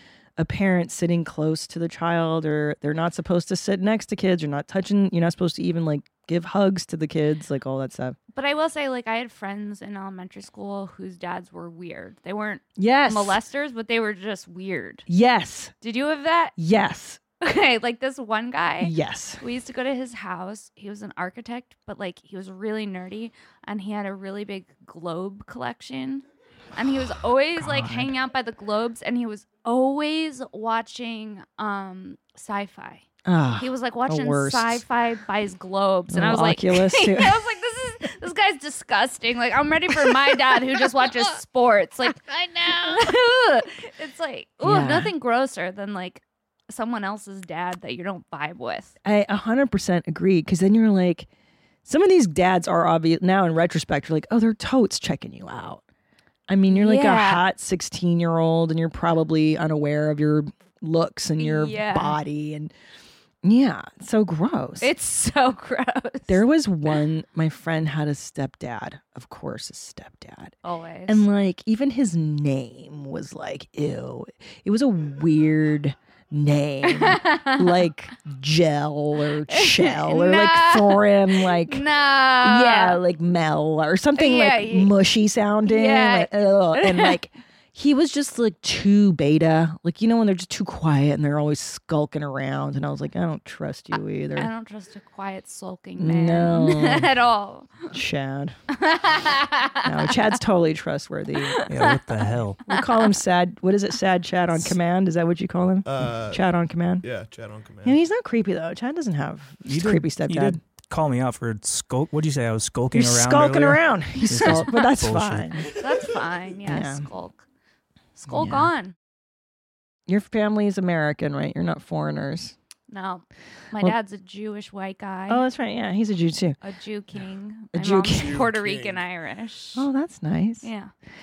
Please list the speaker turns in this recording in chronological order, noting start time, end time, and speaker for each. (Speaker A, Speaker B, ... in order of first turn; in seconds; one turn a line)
Speaker A: 0.4-8.2
Speaker B: 8.3-15.1
Speaker A: 12.8-13.4
Speaker A: 15.1-15.7
Speaker B: 15.8-16.5
Speaker A: 16.6-17.2
Speaker B: 17.4-33.0
Speaker A: 18.8-19.4
Speaker A: 27.6-28.1
Speaker A: 33.2-34.8
Speaker B: 33.6-48.9
Speaker A: 36.1-37.4
Speaker A: 44.6-45.1
Speaker A: 49.0-51.3
Speaker A: 51.9-55.8
Speaker A: 56.5-62.7
Speaker B: 56.7-57.4
Speaker B: 61.4-62.2
Speaker A: 63.4-64.9
Speaker B: 64.8-66.4
Speaker A: 66.3-70.5
Speaker B: 70.6-71.2
Speaker A: 71.1-81.8
Speaker B: 76.8-77.8
Speaker B: 79.5-83.0
Speaker A: 82.4-94.5
Speaker B: 84.2-84.9
Speaker B: 85.7-87.2
Speaker B: 94.3-97.9
Speaker A: 96.0-97.1
Speaker A: 97.9-98.5
Speaker B: 98.7-100.3
Speaker A: 99.8-102.0
Speaker B: 101.4-102.0
Speaker C: 101.7-102.6
Speaker A: 102.6-107.0
Speaker B: 102.7-103.0
Speaker D: 105.8-106.5
Speaker D: 107.0-108.0
Speaker A: 107.8-110.6
Speaker C: 109.7-115.7
Speaker A: 112.9-115.7
Speaker B: 114.3-114.9
Speaker B: 115.7-117.4
Speaker A: 116.7-117.0
Speaker B: 118.2-118.9
Speaker A: 118.3-118.7
Speaker A: 120.1-122.5
Speaker B: 122.9-125.4
Speaker A: 125.3-126.6
Speaker B: 126.6-129.8
Speaker A: 127.7-128.4
Speaker D: 128.2-129.0
Speaker A: 129.7-130.7
Speaker B: 130.6-130.9